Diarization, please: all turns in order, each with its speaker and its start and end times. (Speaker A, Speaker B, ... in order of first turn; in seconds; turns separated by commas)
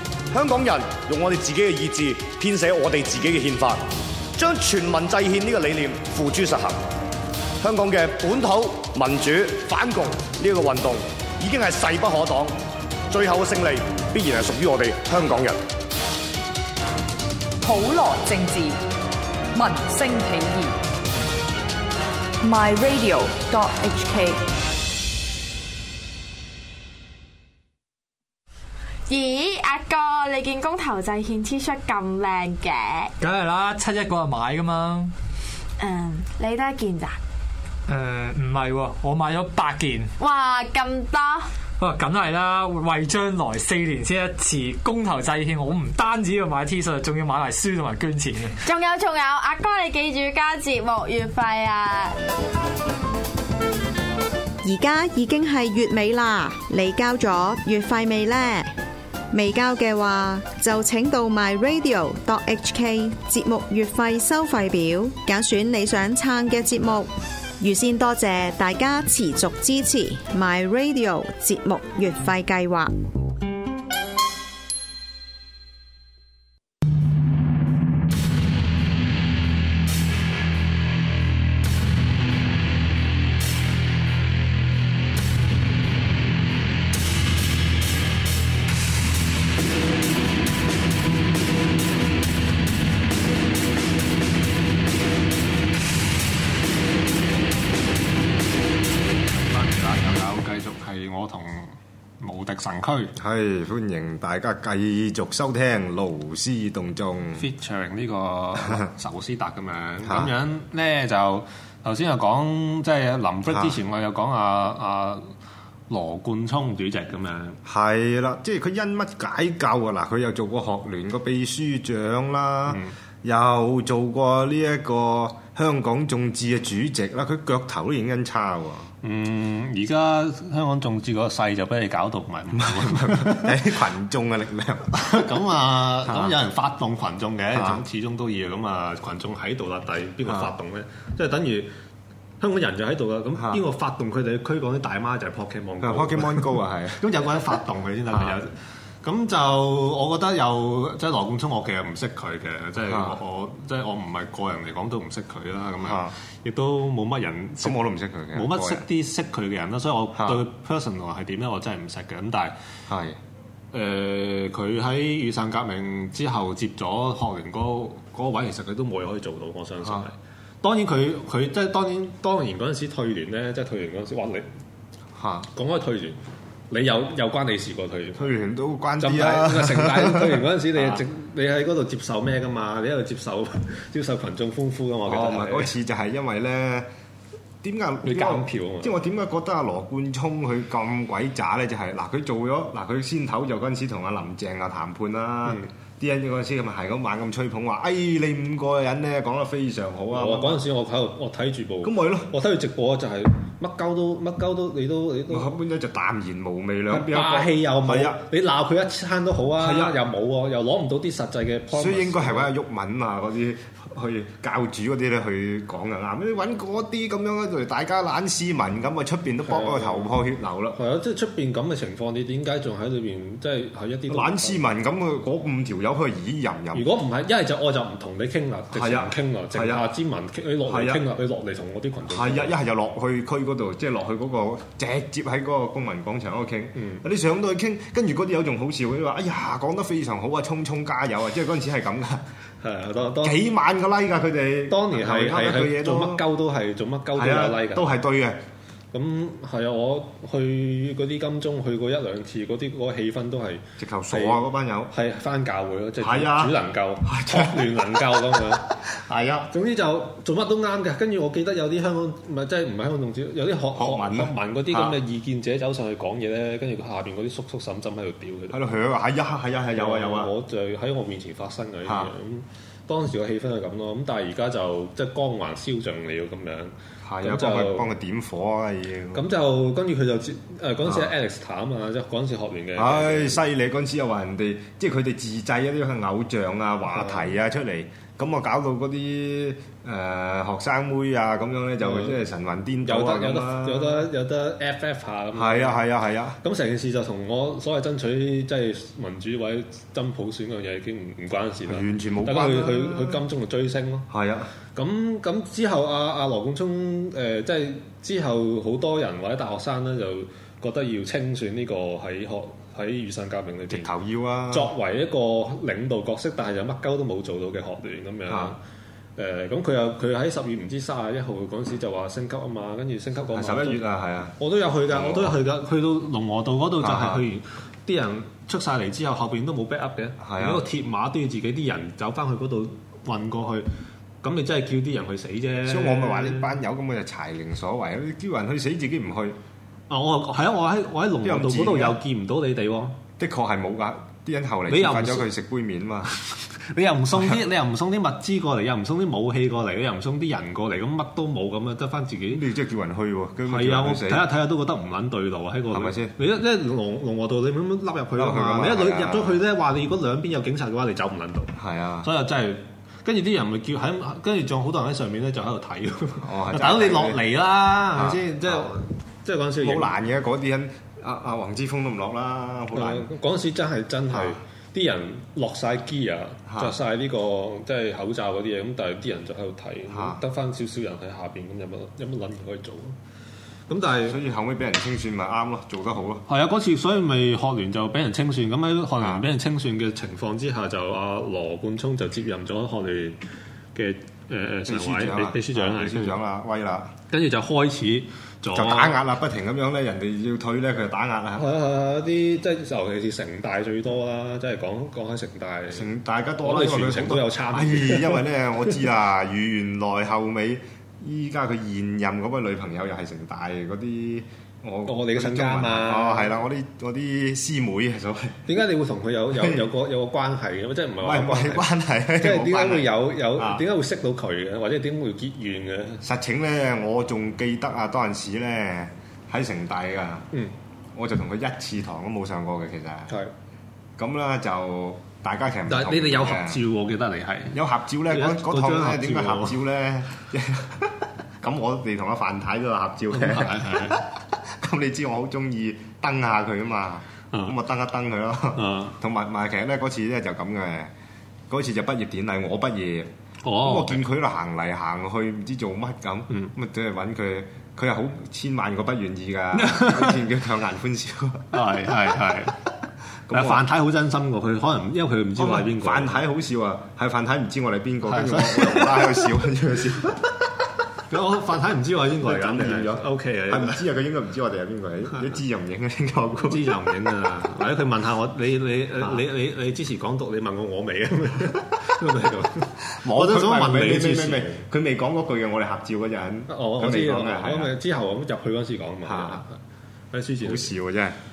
Speaker A: 0.3-6.8, Speaker A: 7.6-12.6, Speaker A: 13.1-15.6, Speaker B: 17.6-18.8, Speaker B: 19.5-20.8, Speaker B: 22.4-24.4, Speaker C: 29.1-33.1, Speaker D: 33.2-35.1, Speaker C: 35.8-37.2, Speaker D: 37.9-40.1, Speaker C: 40.2-41.5, Speaker D: 41.8-48.6, Speaker C: 48.6-52.2, Speaker E: 54.6-58.7, Speaker E: 59.3-72.9, Speaker F: 99.2-103.2, Speaker G: 103.2-107.5, Speaker F: 107.4-115.3, Speaker G: 110.0-110.3, Speaker G: 113.5-113.8, Speaker F: 115.9-117.6, Speaker G: 117.7-128.9, Speaker F: 122.7-122.9, Speaker F: 129.0-133.6, Speaker G: 132.7-135.2, Speaker F: 134.9-141.7, Speaker G: 136.1-136.4, Speaker G: 137.6-137.8, Speaker G: 140.3-140.5, Speaker F: 142.4-148.5, Speaker G: 143.4-143.6, Speaker G: 145.8-147.0, Speaker F: 149.0-157.8, Speaker G: 152.9-153.2, Speaker G: 155.8-156.1, Speaker G: 157.6-158.9, Speaker F: 158.3-162.6, Speaker G: 160.2-160.5, Speaker G: 162.9-163.2, Speaker F: 163.7-174.5, Speaker G: 175.2-175.5, Speaker F: 175.5-178.3, Speaker G: 178.2-181.0, Speaker F: 179.0-185.8, Speaker G: 185.1-186.9, Speaker G: 187.6-200.6, Speaker F: 188.0-188.9, Speaker F: 200.1-205.5, Speaker G: 201.8-202.3, Speaker G: 205.3-208.2, Speaker F: 206.9-212.5, Speaker G: 209.6-210.0, Speaker G: 211.7-220.8, Speaker F: 219.5-220.2, Speaker F: 220.7-224.6, Speaker G: 224.1-226.9, Speaker F: 226.7-232.6, Speaker G: 228.7-229.9, Speaker G: 230.7-231.1, Speaker G: 232.1-242.3, Speaker F: 236.8-237.0, Speaker F: 242.6-243.4, Speaker G: 243.2-246.2, Speaker F: 244.7-247.9, Speaker G: 247.1-248.4, Speaker F: 248.9-258.8, Speaker G: 253.8-254.9, Speaker G: 256.0-259.5, Speaker F: 259.5-268.6, Speaker G: 263.7-265.0, Speaker G: 268.5-270.3, Speaker F: 269.8-277.9, Speaker G: 271.9-272.1, Speaker G: 277.1-279.2, Speaker F: 279.1-283.4, Speaker G: 280.9-281.1, Speaker G: 282.8-294.1, Speaker F: 286.9-287.3, Speaker F: 291.8-292.2, Speaker F: 292.8-295.8, Speaker G: 295.3-296.4, Speaker F: 296.4-304.1, Speaker G: 301.7-303.2, Speaker G: 304.1-304.5, Speaker F: 304.7-313.9, Speaker G: 313.7-314.7, Speaker F: 314.5-318.6, Speaker G: 318.3-318.6, Speaker F: 319.2-323.8, Speaker G: 323.3-324.4, Speaker F: 324.4-333.7, Speaker G: 324.9-325.4, Speaker G: 326.8-327.2, Speaker G: 330.2-330.7, Speaker F: 334.2-336.5, Speaker G: 335.6-339.4, Speaker F: 339.9-343.0, Speaker G: 341.2-342.0, Speaker G: 343.2-346.1, Speaker F: 344.7-345.3, Speaker F: 346.1-352.4, Speaker G: 352.3-354.3, Speaker F: 353.5-370.0, Speaker G: 355.7-356.1, Speaker G: 358.2-359.4, Speaker G: 361.6-362.1, Speaker G: 366.2-367.2, Speaker G: 367.9-368.8, Speaker G: 369.6-373.1, Speaker F: 372.7-383.0, Speaker G: 374.1-374.4, Speaker G: 376.5-376.8, Speaker G: 379.9-380.2, Speaker F: 383.7-384.2, Speaker G: 384.1-386.2, Speaker F: 386.3-393.2, Speaker G: 389.0-389.2, Speaker F: 393.8-396.2, Speaker G: 394.7-396.9, Speaker F: 397.1-399.0, Speaker G: 398.5-401.5, Speaker F: 401.4-405.9, Speaker G: 405.7-418.6, Speaker F: 406.4-408.2, Speaker F: 414.9-416.4, Speaker F: 418.5-426.0, Speaker G: 419.4-419.6, Speaker G: 421.0-423.6, Speaker G: 426.0-430.3, Speaker G: 430.9-433.2, Speaker G: 434.0-436.6, Speaker F: 435.7-439.6, Speaker G: 437.5-450.9, Speaker F: 443.1-444.0, Speaker F: 448.6-449.0, Speaker G: 451.5-461.6, Speaker F: 453.4-454.0, Speaker F: 459.6-460.2, Speaker F: 461.5-462.6, Speaker G: 463.3-463.6, Speaker F: 463.3-466.2, Speaker G: 465.4-470.4, Speaker F: 468.1-469.3, Speaker F: 471.1-473.8, Speaker G: 472.2-476.7, Speaker F: 476.4-484.7, Speaker G: 483.0-487.8, Speaker F: 486.5-489.6, Speaker G: 489.1-489.4, Speaker F: 490.1-490.7, Speaker G: 490.4-491.2